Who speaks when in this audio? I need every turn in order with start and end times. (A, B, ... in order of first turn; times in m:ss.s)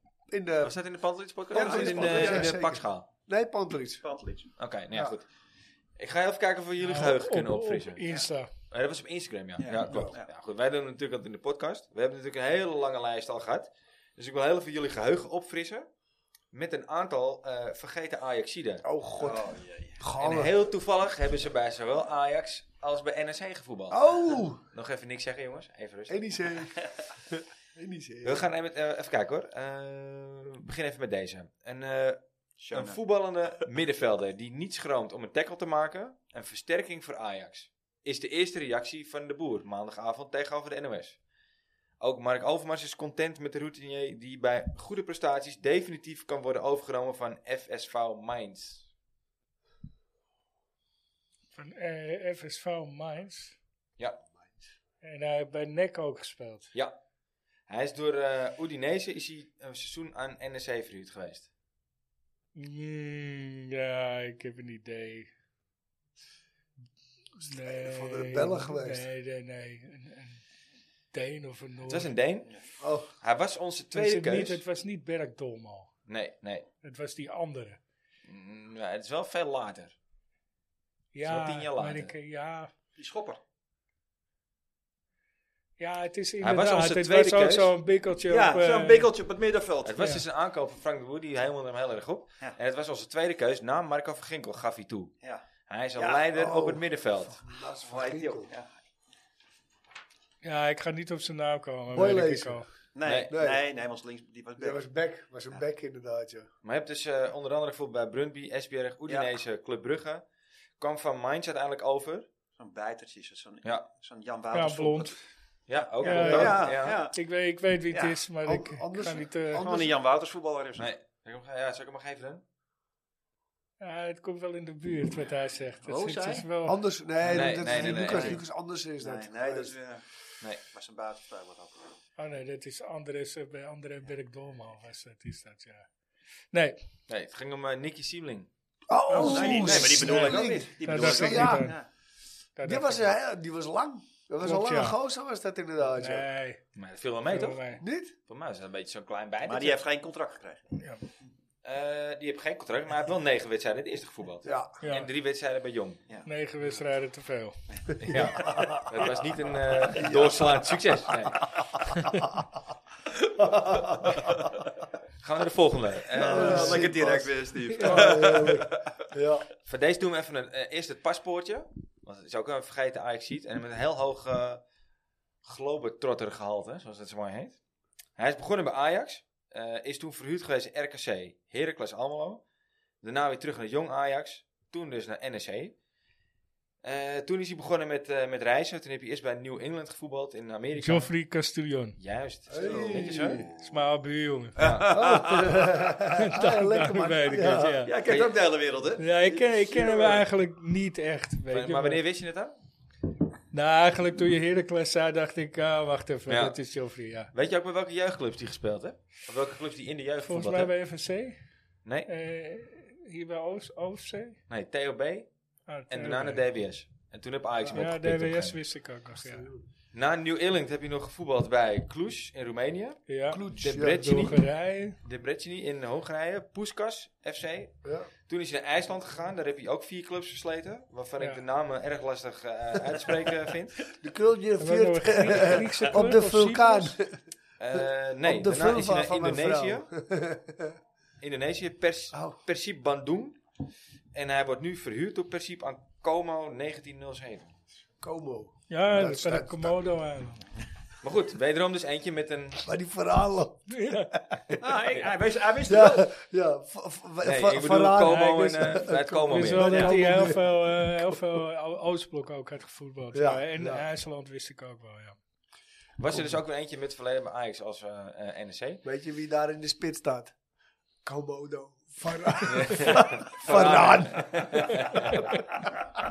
0:00.3-0:00.8 A
0:00.6-0:03.1 B
0:01.5-0:04.0 A
0:01.5-0:02.5 C
0:04.0-0:04.5 C
0:04.6-0:05.3 B
0:06.0-0:15.9 B
0:06.8-0:08.5 D
0:09.6-0:10.3 C
0:09.9-0:10.1 A
0:16.5-0:18.8 B
0:18.8-0:20.6 A
0:19.2-0:20.0 C
0:20.2-0:26.2 B
0:23.9-0:24.6 A
0:26.1-0:28.5 A
0:28.2-0:32.2 B
0:32.6-0:33.0 C
0:32.7-0:41.2 B
0:42.0-0:48.8 B
0:51.5-0:53.6 D
0:54.3-0:54.7 A
0:55.0-0:56.7 D
0:57.7-1:01.5 B
1:02.6-1:05.3 D
1:07.4-1:09.1 A
1:07.4-1:10.4 D
1:11.1-1:12.1 D
1:11.9-1:12.6 B
1:12.8-1:13.1 A
1:13.2-1:14.6 B
1:13.9-1:15.9 D
1:16.1-1:16.6 B
1:16.8-1:17.8 D
1:18.3-1:19.9 B
1:21.1-1:22.7 D
1:21.3-1:22.1 B
1:23.0-1:23.4 C
1:25.8-1:29.1 D
1:26.4-1:27.7 B
1:28.3-1:30.1 C
1:29.8-1:35.1 B
1:35.7-1:37.4 B
1:36.0-1:36.3 C
1:36.3-1:38.5 A
1:37.9-1:38.7 C
1:40.4-1:42.7 D
1:41.9-1:42.7 A
1:43.0-1:44.8 C
1:43.0-1:43.3 B
1:43.3-1:43.6 A
1:44.6-1:46.5 A
1:46.6-1:50.2 B
1:50.8-1:52.3 B
1:52.6-1:55.2 C
1:54.5-1:55.2 D
1:55.7-1:57.0 B
1:56.0-1:57.2 C
1:56.0-1:59.6 D
1:56.1-1:56.6 A
1:57.9-1:58.2 C
1:58.4-1:59.9 A
1:59.6-2:00.9 C
2:00.8-2:02.4 B
2:03.8-2:06.8 D
2:05.9-2:06.4 C
2:06.6-2:09.8 A
2:07.3-2:08.4 B
2:07.4-2:08.4 C
2:09.0-2:10.0 C
2:10.6-2:11.9 C
2:12.2-2:15.9 D
2:16.5-2:16.8 D
2:17.1-2:18.5 B
2:18.9-2:21.7 A
2:19.1-2:21.8 D
2:19.2-2:21.9 C
2:22.6-2:23.1 D
2:22.6-2:26.3 A
2:24.4-2:25.0 D
2:26.0-2:26.6 D
2:26.7-2:27.6 B
2:27.3-2:27.8 D
2:27.8-2:28.1 A
2:28.3-2:29.8 B
2:29.4-2:30.6 C
2:31.6-2:36.0 B
2:34.4-2:34.8 A
2:34.8-2:35.1 D
2:36.2-2:37.6 D
2:38.0-2:41.7 B
2:38.1-2:38.9 A
2:39.9-2:40.6 A
2:42.0-2:42.3 D
2:43.4-2:44.3 A
2:44.0-2:44.4 C
2:45.2-2:47.3 B
2:46.1-2:49.5 A
2:46.1-2:48.9 C
2:47.7-2:48.3 D
2:49.6-2:54.6 B
2:55.4-2:57.6 B
2:58.2-3:02.4 B
3:03.0-3:05.7 B
3:06.8-3:11.1 B
3:10.8-3:12.0 D
3:12.0-3:13.4 B
3:12.5-3:13.5 A
3:12.6-3:13.7 C
3:13.6-3:14.6 D
3:14.6-3:15.8 C
3:14.6-3:15.0 B
3:14.9-3:17.9 A
3:16.1-3:17.9 D
3:17.8-3:20.2 C
3:18.0-3:18.3 B
3:19.0-3:22.0 D
3:21.5-3:22.6 B
3:23.5-3:27.3 D
3:26.3-3:26.6 B
3:27.3-3:30.7 B
3:30.2-3:31.4 D
3:32.1-3:34.4 D
3:34.5-3:35.3 B
3:35.7-3:36.4 D
3:35.9-3:38.6 B
3:37.7-3:39.5 D
3:39.2-3:39.6 A
3:39.9-3:44.4 B
3:43.1-3:45.0 D
3:43.3-3:44.0 A
3:45.0-3:47.8 B
3:47.8-3:48.1 A
3:48.3-3:53.9 B
3:54.0-3:57.2 A
3:54.6-3:57.0 D
3:57.6-3:59.9 B
3:57.7-4:00.8 A
4:01.2-4:03.4 B
4:02.1-4:02.4 A
4:04.1-4:07.5 B
4:08.0-4:09.9 A
4:08.7-4:10.4 D
4:11.0-4:12.6 B
4:12.6-4:14.7 A
4:13.7-4:14.1 D
4:14.6-4:16.1 C
4:15.6-4:21.1 A
4:17.2-4:19.9 B
4:18.0-4:25.2 D
4:19.7-4:19.9 C
4:23.1-4:23.9 A
4:26.0-4:28.8 B
4:26.1-4:26.4 A
4:28.8-4:30.3 A
4:31.0-4:35.2 A
4:32.4-4:35.4 B